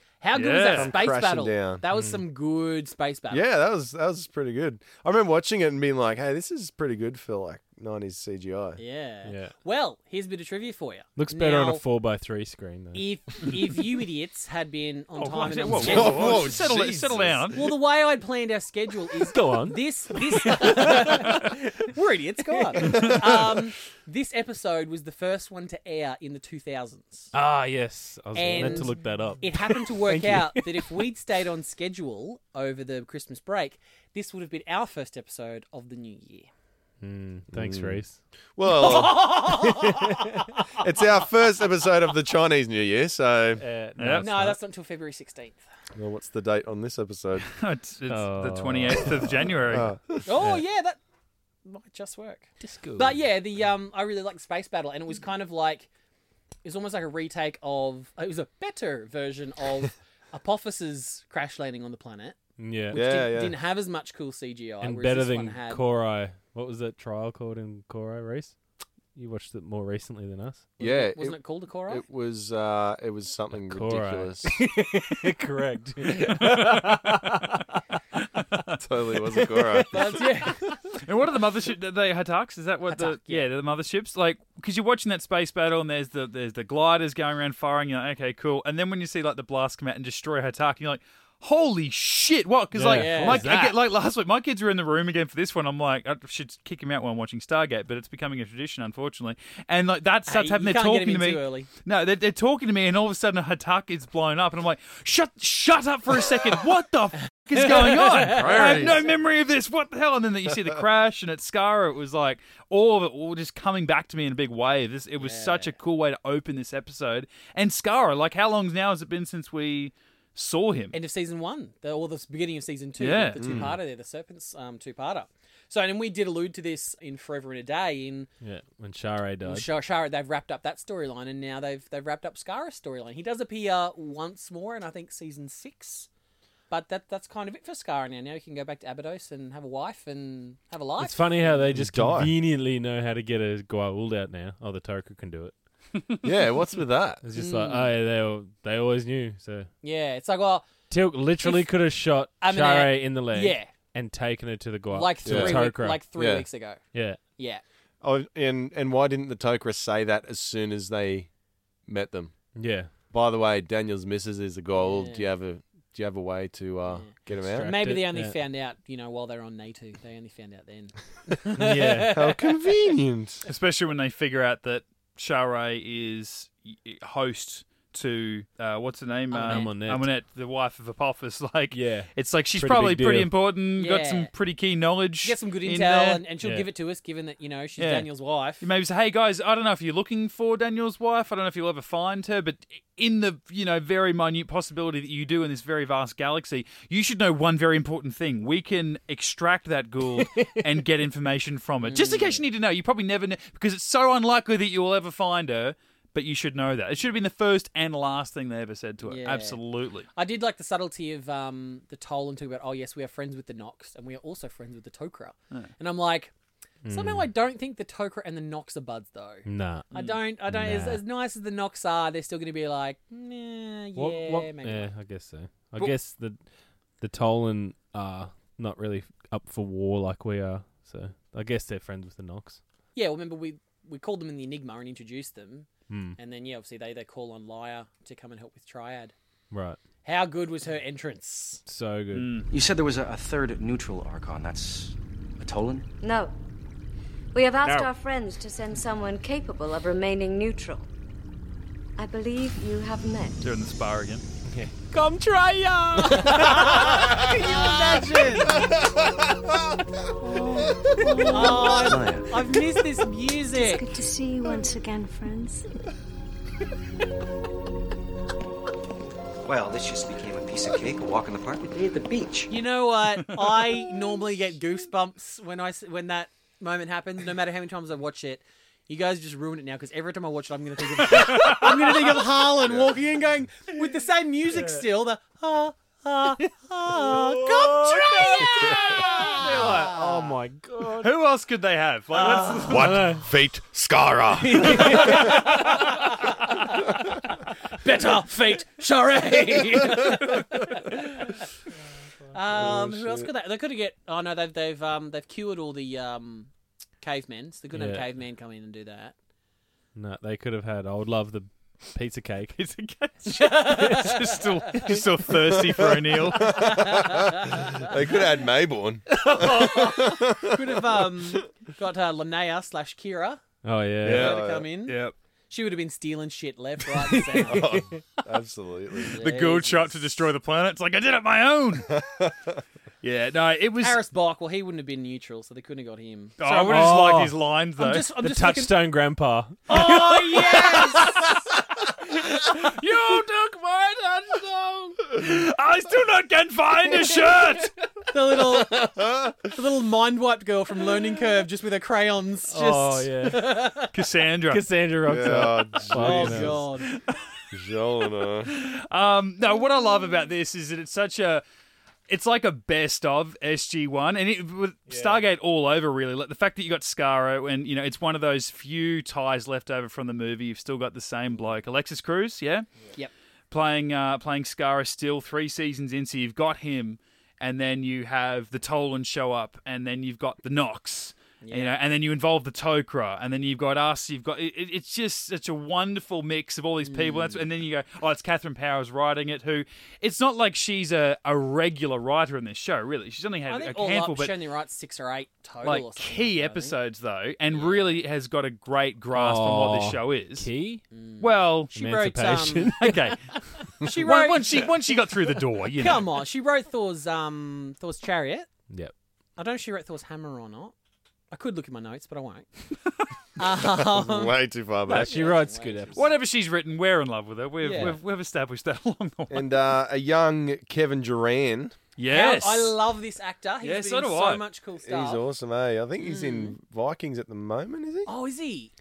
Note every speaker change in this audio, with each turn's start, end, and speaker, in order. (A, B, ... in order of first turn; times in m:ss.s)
0:00.2-0:03.5 A
0:00.3-0:01.0 B
0:00.7-0:01.8 C
0:01.9-0:02.2 D
0:03.3-0:08.8 C
0:08.8-0:11.8 A
0:09.2-0:09.5 D
0:11.2-0:13.6 D
0:12.9-0:16.5 A
0:15.2-0:17.6 B
0:15.8-0:17.6 C
0:17.5-0:27.3 A
0:19.2-0:21.9 D
0:22.7-0:23.2 D
0:27.3-0:31.0 D
0:28.3-0:36.5 A
0:37.0-0:38.2 D
0:37.5-0:38.0 C
0:38.6-0:39.7 C
0:38.7-0:40.6 A
0:39.8-0:40.2 D
0:40.7-0:43.6 C
0:43.6-0:44.6 D
0:44.0-0:44.3 B
0:44.2-0:45.6 A
0:46.0-0:47.5 C
0:47.5-0:49.9 B
0:48.1-0:49.4 D
0:49.1-0:50.3 C
0:50.2-0:51.0 A
0:51.6-0:55.9 A
0:52.6-0:53.2 D
0:56.6-1:02.4 A
1:02.6-1:03.0 D
1:02.9-1:03.6 C
1:02.9-1:05.8 A
1:04.8-1:08.6 D
1:09.2-1:10.7 D
1:10.8-1:12.0 A
1:10.8-1:14.7 C
1:13.6-1:17.6 D
1:16.2-1:17.4 B
1:18.4-1:18.8 B
1:18.8-1:20.2 C
1:19.3-1:20.8 D
1:19.9-1:20.7 A
1:21.0-2:01.0 B
1:22.9-1:23.5 A
1:32.7-1:33.8 D
1:32.9-1:33.5 A
1:40.3-1:41.7 A
1:48.2-1:48.9 A
1:48.3-1:49.0 C
1:55.2-1:55.8 A
2:00.9-2:08.3 A
2:03.0-2:03.4 B
2:03.4-2:03.8 C
2:08.4-2:09.7 D
2:09.4-2:16.1 A
2:16.7-2:21.6 A
2:21.0-2:25.5 D
2:21.7-2:22.3 C
2:26.2-2:27.2 C
2:27.2-2:29.7 D
2:27.4-2:27.9 A
2:29.8-2:30.7 A
2:30.9-2:36.0 D
2:31.4-2:31.7 A
2:32.4-2:33.7 A
2:34.9-2:36.8 A
2:35.2-2:35.6 C
2:36.2-2:36.5 C
2:36.9-2:37.2 D
2:37.4-2:37.6 A
2:38.0-2:41.3 C
2:41.9-2:42.4 C
2:42.6-2:42.9 D
2:43.1-2:47.7 C
2:44.8-2:45.3 A
2:46.9-2:52.7 A
2:47.4-2:48.4 D
2:51.6-2:52.2 D
2:52.1-2:53.4 C
2:53.4-3:06.2 B
2:59.3-2:59.7 A
2:59.4-3:00.1 D
3:01.7-3:03.3 D
3:03.8-3:04.3 A
3:05.2-3:08.6 A
3:06.4-3:06.7 D
3:07.8-3:08.1 B
3:08.6-3:30.1 B
3:20.1-3:20.6 D
3:21.8-3:22.4 A
3:29.0-3:29.6 A
3:30.1-3:36.3 A
3:36.8-3:37.3 D
3:36.9-3:44.9 A
3:39.4-3:39.9 D
3:39.9-3:40.2 B
3:40.5-3:41.0 D
3:44.0-3:46.4 D
3:47.0-3:52.6 D
3:53.0-3:59.1 A
3:55.9-3:56.2 D
3:59.5-3:59.8 D
4:00.0-4:01.6 A
4:01.7-4:02.4 D
4:02.1-4:02.5 B
4:02.5-4:05.9 E
4:06.0-4:06.3 F
4:07.3-4:10.9 F
4:12.0-4:13.4 F
4:13.4-4:14.2 B
4:14.4-4:18.0 D
4:16.1-4:18.7 A
4:17.0-4:17.5 C
4:18.4-4:19.9 C
4:20.2-4:21.4 D
4:21.3-4:23.9 A
4:21.8-4:22.5 E
4:23.5-4:25.7 F
4:29.4-4:32.5 E
4:32.5-4:50.4 A
4:41.3-4:41.7 B
4:42.6-4:43.0 C
4:46.9-4:51.1 D
4:51.0-4:53.0 B
4:52.1-4:52.8 A
4:52.7-4:55.2 C
4:52.8-4:53.2 D
4:54.5-4:55.3 D
4:54.7-5:01.5 A
4:54.8-4:55.4 B
5:02.3-5:06.5 A
5:02.5-5:03.3 C
5:07.0-5:09.1 A
5:07.7-5:08.1 D
5:10.0-5:12.6 D
5:12.6-5:16.8 B
5:13.2-5:14.8 A
5:15.4-5:21.4 C
5:16.6-5:17.9 A
5:19.4-5:23.4 A
5:23.6-5:24.3 D
5:24.0-5:24.7 C
5:24.1-5:25.2 B
5:24.1-5:25.0 A
5:25.5-5:27.7 A
5:27.0-5:27.9 D
5:27.4-5:29.2 C
5:29.0-5:30.0 A
5:29.2-5:32.0 B
5:31.9-5:32.6 C
5:33.0-5:34.0 B
5:33.8-5:36.9 A
5:36.4-5:38.1 B
5:36.7-5:37.4 D
5:37.8-5:38.8 A
5:38.2-5:41.0 D
5:39.7-5:41.4 A
5:40.5-5:41.3 B
5:42.1-5:47.8 B
5:44.0-5:45.0 D
5:48.1-5:53.9 A
5:48.4-5:49.5 C
5:52.5-5:53.5 D
5:53.9-5:54.7 B
5:54.5-5:56.7 D
5:55.0-5:56.6 C
5:55.9-5:56.9 A
5:56.9-5:57.1 B
5:57.5-5:58.6 C
5:58.4-6:01.4 B
6:02.1-6:12.7 B
6:04.9-6:05.2 D
6:13.5-6:34.4 B
6:21.4-6:21.7 A
6:26.8-6:27.4 A
6:33.5-6:36.8 A
6:35.6-6:40.5 B
6:37.5-6:38.0 A
6:39.1-6:40.8 D
6:40.9-6:42.9 A
6:41.2-6:41.8 B
6:41.8-6:43.2 D
6:42.8-6:46.1 B
6:43.8-6:44.7 A
6:45.8-6:48.5 A
6:49.4-6:50.7 A
6:51.3-6:52.5 A
6:53.4-6:56.1 A
6:53.6-6:55.2 C
6:54.9-6:56.1 D
6:55.9-6:59.6 B
6:57.6-6:58.0 A
6:59.3-7:01.8 C
7:02.0-7:02.8 B
7:02.1-7:05.2 A
7:03.6-7:04.4 B
7:04.8-7:08.1 C
7:06.0-7:06.6 A
7:08.1-7:08.7 A